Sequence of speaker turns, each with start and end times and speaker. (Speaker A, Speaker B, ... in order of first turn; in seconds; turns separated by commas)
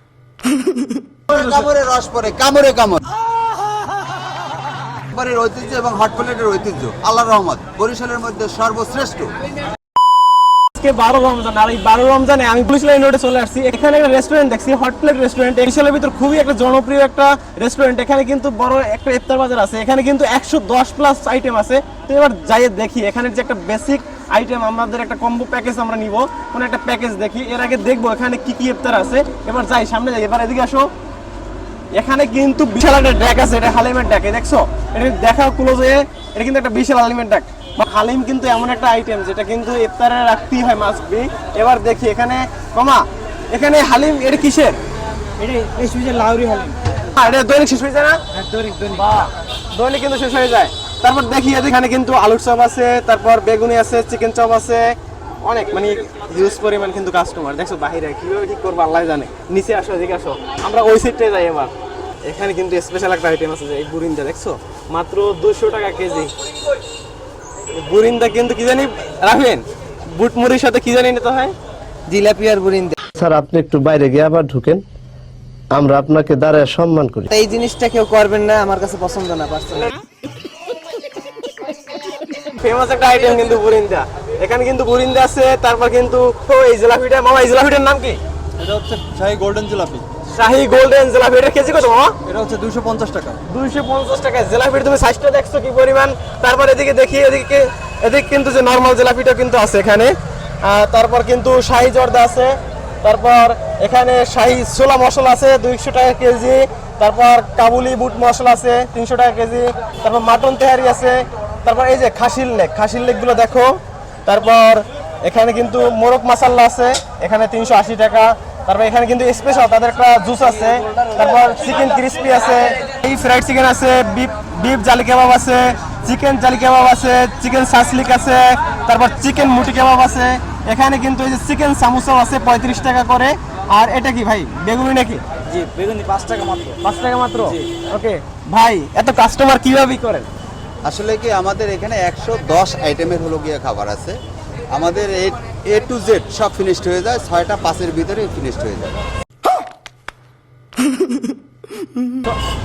Speaker A: 1.3-3.0, Speaker A: 5.1-9.3, Speaker B: 10.7-30.9, Speaker B: 31.9-44.8, Speaker C: 45.4-46.8, Speaker B: 47.1-48.2, Speaker C: 48.3-49.3, Speaker B: 49.7-61.7, Speaker B: 62.2-66.3, Speaker B: 67.7-71.5, Speaker C: 72.1-73.0, Speaker D: 73.2-74.8, Speaker D: 75.7-77.3, Speaker C: 77.3-80.0, Speaker B: 82.4-88.2, Speaker E: 88.6-90.0, Speaker B: 90.3-92.2, Speaker E: 92.3-93.4, Speaker B: 93.5-135.2, Speaker C: 135.4-136.8, Speaker B: 136.8-140.3, Speaker A: 140.8-144.2, Speaker A: 144.7-149.0